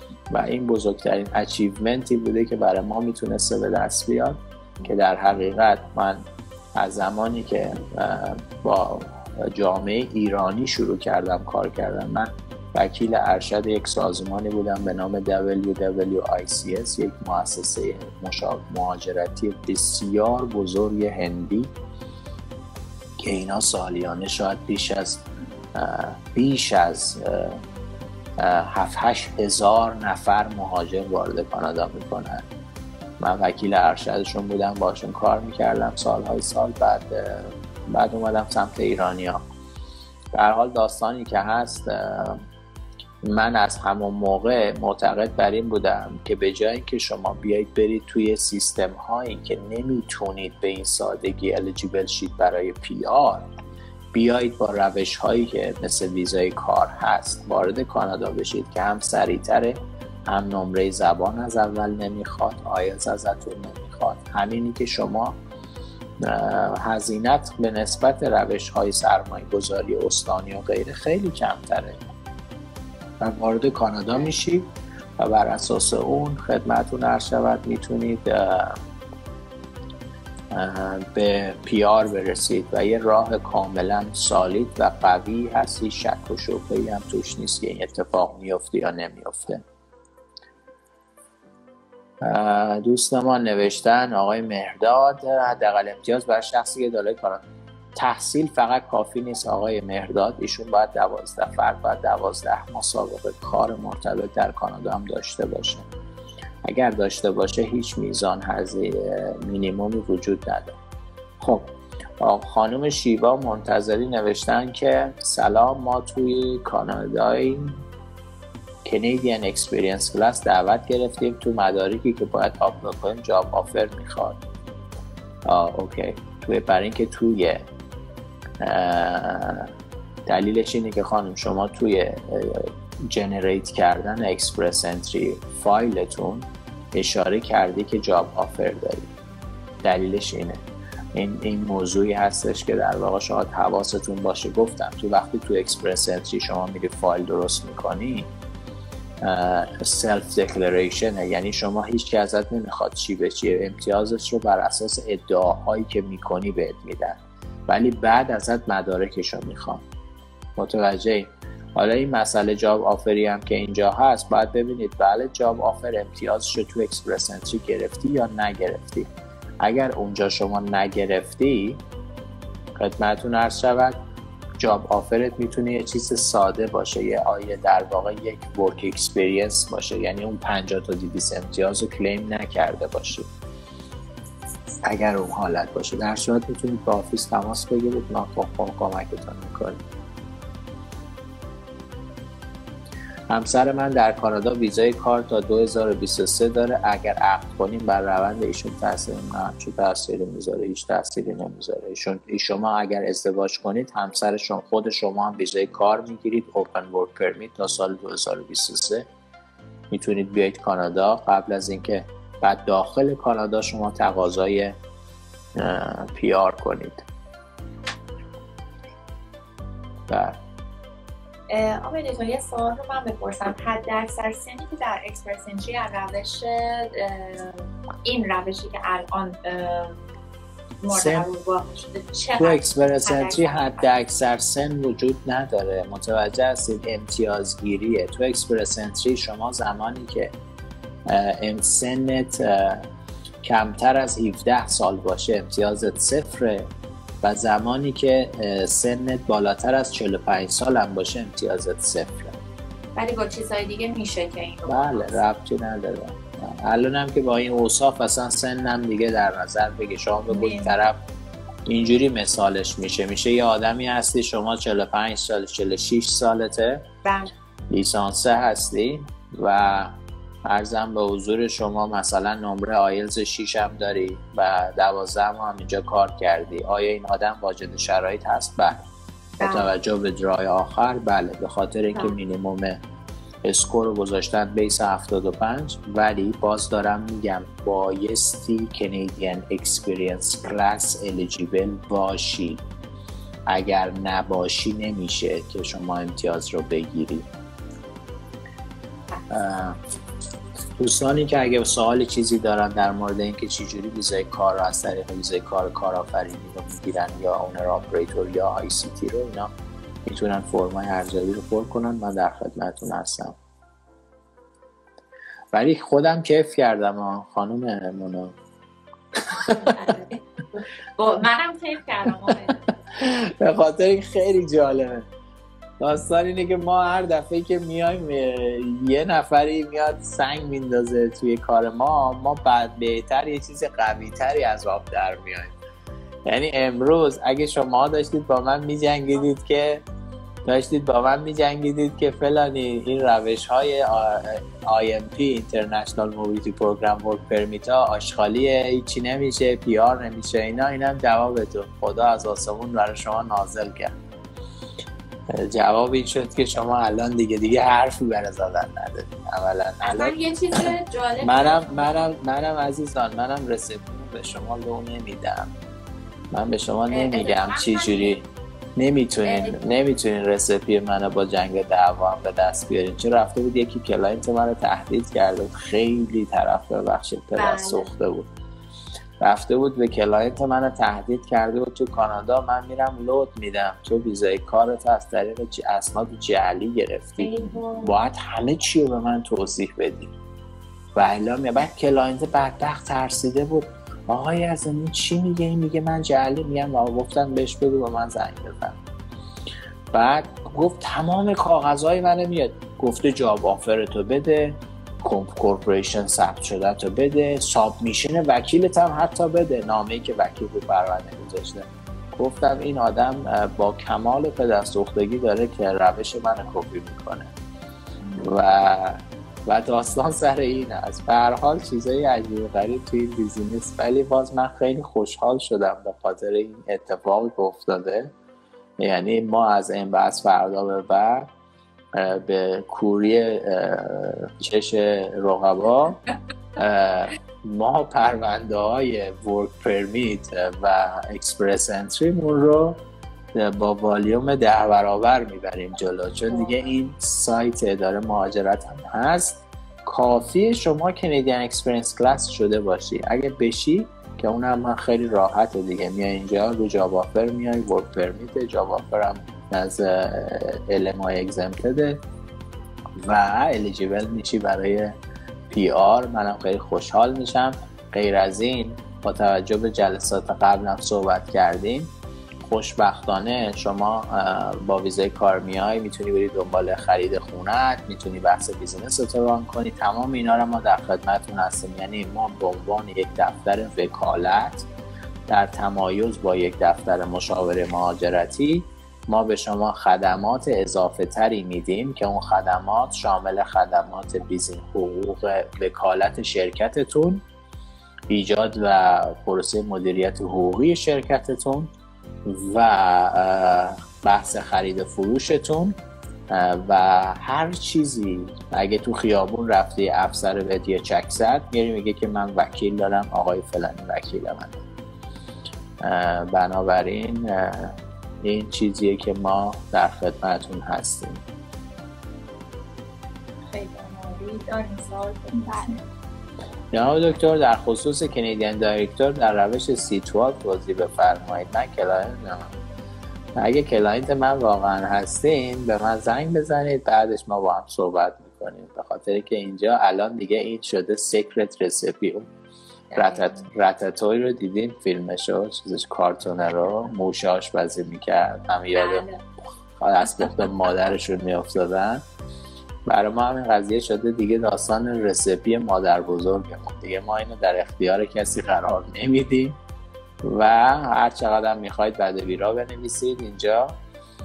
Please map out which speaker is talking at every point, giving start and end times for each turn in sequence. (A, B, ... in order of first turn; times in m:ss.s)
0:00.3-0:06.2 A
0:06.7-0:21.7 A
0:23.2-0:27.6 A
0:28.4-0:32.5 A
0:33.2-0:39.4 A
0:40.3-0:42.4 A
0:43.2-0:53.5 A
0:54.1-1:05.4 A
1:06.2-1:12.0 A
1:13.2-1:18.8 A
1:20.5-1:29.6 A
1:32.2-1:37.4 A
1:38.0-1:45.8 A
1:46.6-1:50.8 A
1:51.4-1:57.8 A
1:58.8-2:04.4 A
2:05.4-2:07.6 A
2:08.6-2:09.7 A
2:10.3-2:19.1 A
2:19.8-2:20.6 A
2:21.1-2:28.3 A
2:29.2-2:39.8 A
2:40.6-2:49.1 A
2:49.6-2:51.8 A
2:52.8-2:54.0 A
2:54.6-3:03.3 A
3:04.8-3:09.8 A
3:13.3-3:29.1 A
3:29.9-3:34.8 A
3:35.6-3:37.0 A
3:40.1-3:40.4 A
3:41.5-3:50.0 B
3:50.8-3:53.9 B
3:50.9-3:51.3 A
3:52.4-4:00.3 A
4:01.1-4:02.8 A
4:03.4-4:06.7 A
4:07.2-4:12.4 A
4:13.0-4:15.2 B
4:14.7-4:21.0 A
4:20.3-4:20.8 B
4:21.6-4:26.8 A
4:27.0-4:27.3 B
4:27.7-4:38.8 A
4:39.4-4:39.7 B
4:39.4-4:42.8 A
4:43.4-4:52.6 A
4:53.5-4:57.3 A
4:59.3-4:59.8 A
5:00.8-5:09.5 A
5:10.0-5:13.3 A
5:15.5-5:18.3 A
5:19.4-5:22.8 B
5:22.9-5:25.1 A
5:25.8-5:35.5 A
5:36.2-5:39.8 A
5:40.4-5:53.9 A
5:55.3-6:05.5 A
5:59.8-6:01.9 B
6:06.3-6:08.2 A
6:06.9-6:08.2 B
6:08.8-6:18.3 A
6:09.2-6:09.6 B
6:17.3-6:17.9 B
6:19.2-6:30.1 A
6:27.2-6:27.9 B
6:30.9-6:38.8 A
6:39.9-6:57.3 A
6:58.0-6:58.3 B
6:58.2-7:08.1 A
7:08.8-7:11.3 A
7:11.9-7:16.0 A
7:16.6-7:22.8 A
7:23.3-7:42.0 A
7:43.0-7:44.9 A
7:45.5-7:51.9 A
7:52.4-8:04.7 A
8:05.3-8:17.2 A
8:18.1-8:21.7 A
8:22.2-8:25.8 A
8:26.3-8:34.6 A
8:35.8-8:41.2 A
8:43.5-8:45.8 B
8:46.7-8:52.6 A
8:53.4-9:02.3 A
9:02.9-9:03.5 B
9:03.0-9:09.1 A
9:08.7-9:09.2 B
9:09.8-9:12.0 A
9:10.0-9:10.5 B
9:12.9-9:19.6 A
9:20.2-9:23.7 A